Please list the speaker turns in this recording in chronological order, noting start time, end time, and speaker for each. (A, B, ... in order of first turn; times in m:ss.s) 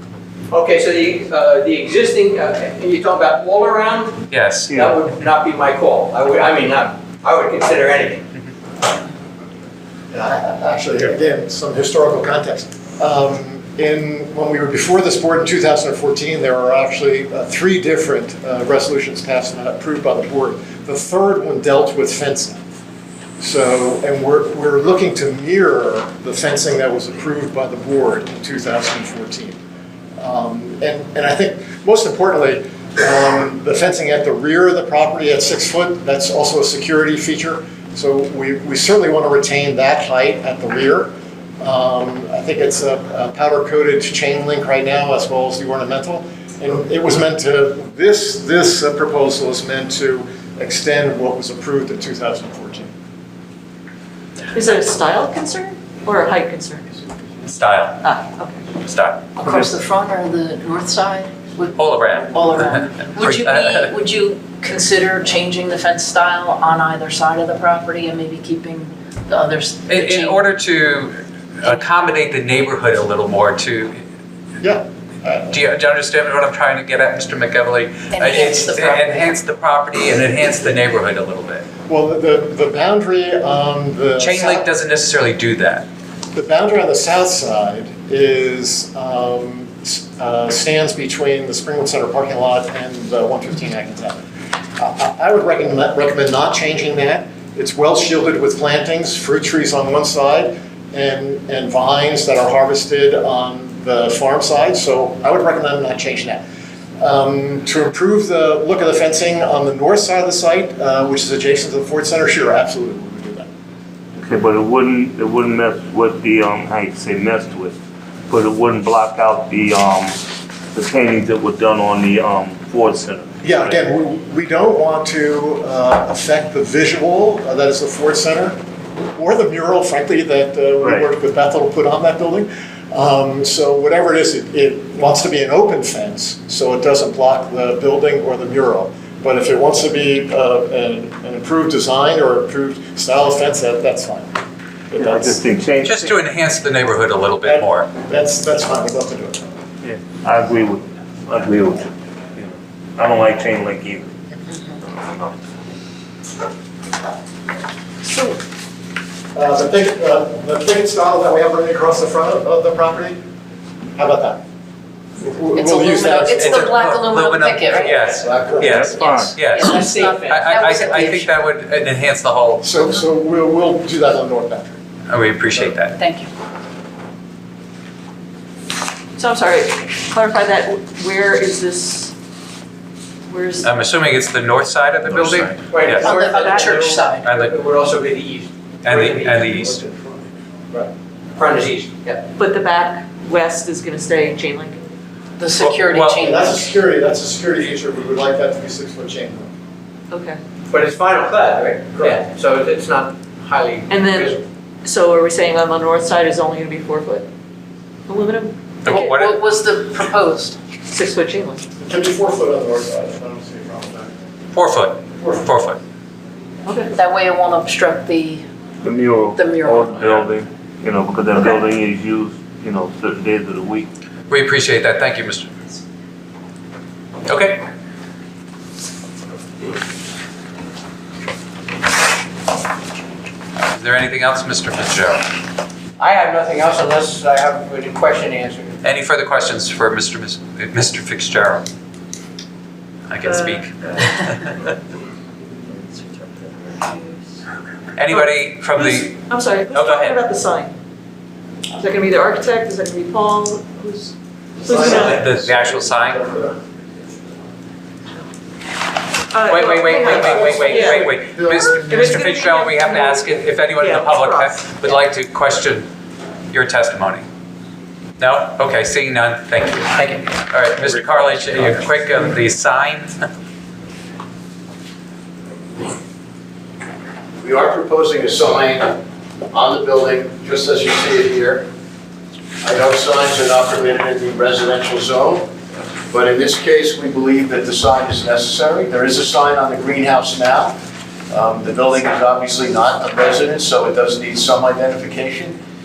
0:00.5-0:08.2 A
0:04.3-0:04.9 B
0:10.1-0:22.6 C
0:23.4-0:29.6 C
0:30.2-0:52.9 C
0:54.5-0:57.0 D
0:57.5-0:58.0 B
0:58.0-0:58.6 D
0:58.8-0:59.2 B
0:59.4-1:10.4 E
1:01.8-1:03.9 B
1:09.9-1:14.0 B
1:14.6-1:15.6 C
1:15.5-1:21.6 B
1:18.1-1:19.2 E
1:21.9-1:24.7 C
1:24.2-1:25.9 B
1:26.3-1:34.2 C
1:34.8-1:46.4 C
1:47.0-1:53.5 C
1:54.2-1:57.8 F
1:58.3-2:00.2 F
2:00.7-2:03.8 F
2:03.4-2:08.6 C
2:09.2-2:24.3 C
2:10.8-2:11.1 F
2:24.9-2:25.4 C
2:25.0-2:26.1 F
2:25.8-2:27.9 B
2:27.4-2:29.4 C
2:29.8-2:34.1 F
2:39.3-2:43.2 C
2:44.0-2:44.4 C
2:45.2-2:46.8 C
2:45.6-2:51.3 E
2:46.4-2:52.7 B
2:47.9-2:48.9 C
2:48.6-2:49.5 F
2:49.6-2:50.4 A
2:52.6-2:54.8 C
2:55.1-2:56.0 B
2:56.0-2:56.3 E
2:59.2-3:02.1 D
3:03.3-3:03.7 D
3:03.6-3:06.1 B
3:05.1-3:09.9 A
3:06.0-3:07.3 E
3:07.2-3:07.5 B
3:08.8-3:09.8 B
3:10.7-3:12.3 A
3:12.4-3:14.8 D
3:15.4-3:16.7 E
3:15.6-3:16.2 B
3:16.2-3:19.5 C
3:20.1-3:20.4 D
3:20.7-3:24.4 A
3:23.9-3:24.3 D
3:24.8-3:27.2 D
3:28.1-3:29.1 D
3:28.8-3:29.4 B
3:28.9-3:30.6 E
3:30.9-3:31.7 D
3:31.8-3:34.1 C
3:34.5-3:35.8 B
3:35.2-3:35.5 C
3:36.7-3:36.9 D
3:37.0-3:38.4 E
3:38.8-3:43.9 F
3:39.3-3:40.2 E
3:44.3-3:45.5 B
3:47.3-3:47.6 B
3:53.7-3:55.3 B
3:56.0-3:58.8 A
3:58.8-4:01.7 B
4:03.1-4:04.4 B
4:03.3-4:04.1 D
4:05.7-4:07.4 D
4:08.0-4:10.2 B
4:08.1-4:10.7 D
4:11.8-4:15.3 D
4:14.8-4:16.2 B
4:19.3-4:21.2 D
4:19.5-4:25.9 B
4:20.6-4:21.7 C
4:21.8-4:24.6 D
4:26.5-4:27.2 B
4:28.2-4:33.3 B
4:30.8-4:31.8 G
4:37.4-4:39.0 G
4:39.5-4:41.7 G
4:42.6-4:45.5 G
4:46.1-4:50.8 G
4:51.3-4:55.6 G